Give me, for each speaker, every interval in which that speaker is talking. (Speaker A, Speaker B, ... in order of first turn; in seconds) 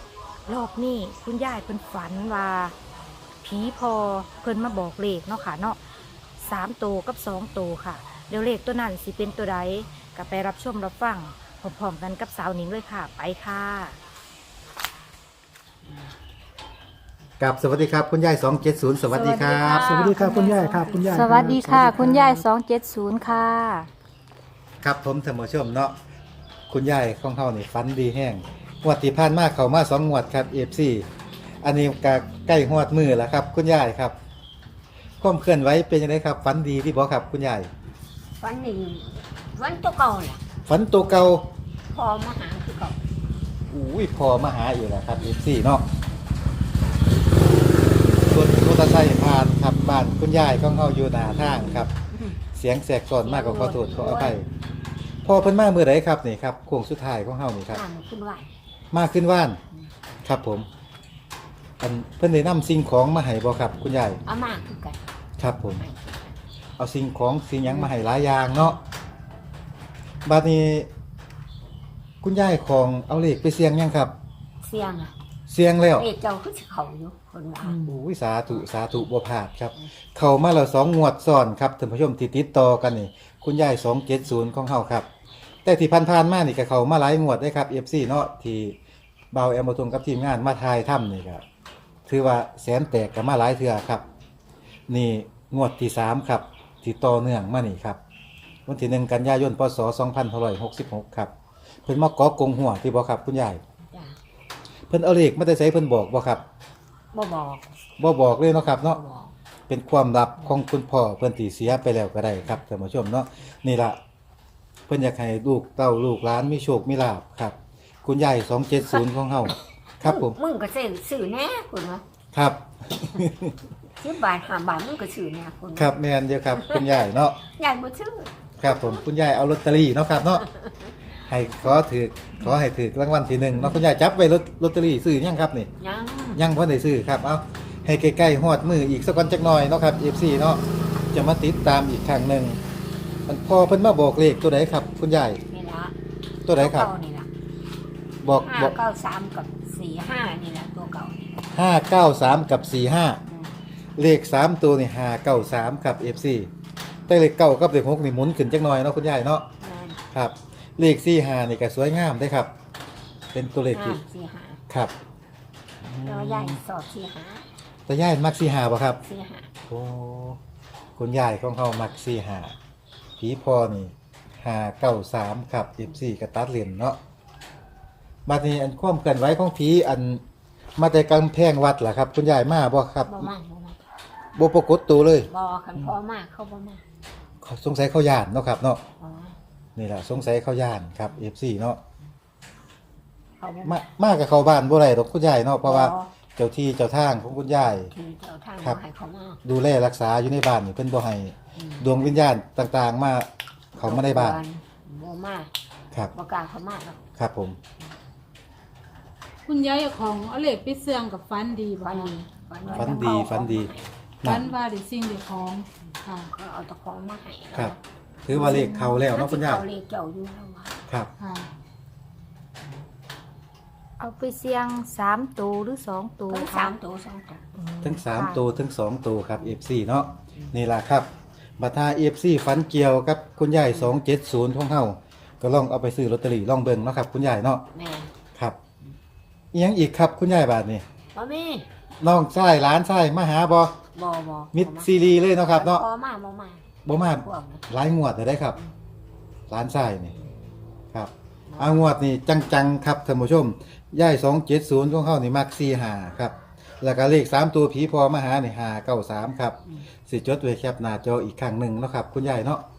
Speaker A: 0.5-2.7, 3.4-5.8, 6.4-14.0, 21.0-23.9, 224.0-226.7, 227.6-228.4
Speaker B: 17.4-22.2, 24.8-26.0, 26.7-31.1, 31.6-34.1, 35.2-37.7, 40.7-41.5, 43.7-45.8, 48.2-51.9, 52.5-54.5, 55.2-57.8, 58.9-59.6, 60.2-60.6, 61.8-64.2, 65.4-65.8, 66.8-68.8, 70.2-70.9, 72.2-74.1, 75.5-76.1, 77.7-85.0, 85.6-88.8, 89.3-91.4, 92.1-94.0, 94.9-98.0, 98.7-101.3, 101.8-103.6, 104.9-106.4, 108.0-109.0, 109.7-114.0, 114.9-120.3, 122.3-123.5, 125.8-127.4, 128.6-130.5, 131.2-135.7, 136.3-142.6, 143.3-145.4, 146.4-146.9, 148.2-148.8, 151.5-153.2, 154.0-156.5, 157.1-159.5, 160.1-162.5, 163.3-164.0, 165.8-166.6, 167.9-169.0, 169.7-170.4, 171.0-172.6, 173.2-177.0, 178.2-180.2, 180.8-183.3, 184.3-185.3, 187.4-188.8, 189.8-191.8, 193.6-197.9, 199.4-204.4, 207.2-207.6, 212.7-213.7, 214.2-214.5, 217.5-219.7, 227.8-237.7, 239.5-240.8, 242.0-243.8, 244.5-245.8, 246.8-248.6, 249.5-250.1, 250.9-262.6
Speaker C: 19.1-22.4, 209.4-212.2, 212.7-213.0, 214.2-216.3, 221.2-221.5
Speaker D: 38.4-40.4, 41.9-43.1, 53.2-54.4, 57.7-58.5, 64.2-65.0, 65.8-66.4, 74.6-75.1, 76.0-77.9, 103.9-104.2, 107.1-107.6, 108.8-109.3, 120.0-122.0, 124.0-126.0, 126.5-129.0, 135.8-136.4, 145.5-145.9, 146.6-147.3, 148.2-151.3, 159.6-160.0, 163.7-164.6, 166.0-167.5, 169.0-169.5, 183.1-183.8, 185.3-186.8, 189.0-189.4, 193.4-193.8, 195.6-196.1, 197.9-199.4, 201.6-201.9, 203.8-205.5, 206.1-207.0, 211.8-213.9, 216.2-217.8, 218.3-220.8, 226.3-227.5, 237.7-238.1, 241.1-241.7, 243.9-244.9, 245.5-247.6, 251.5-251.8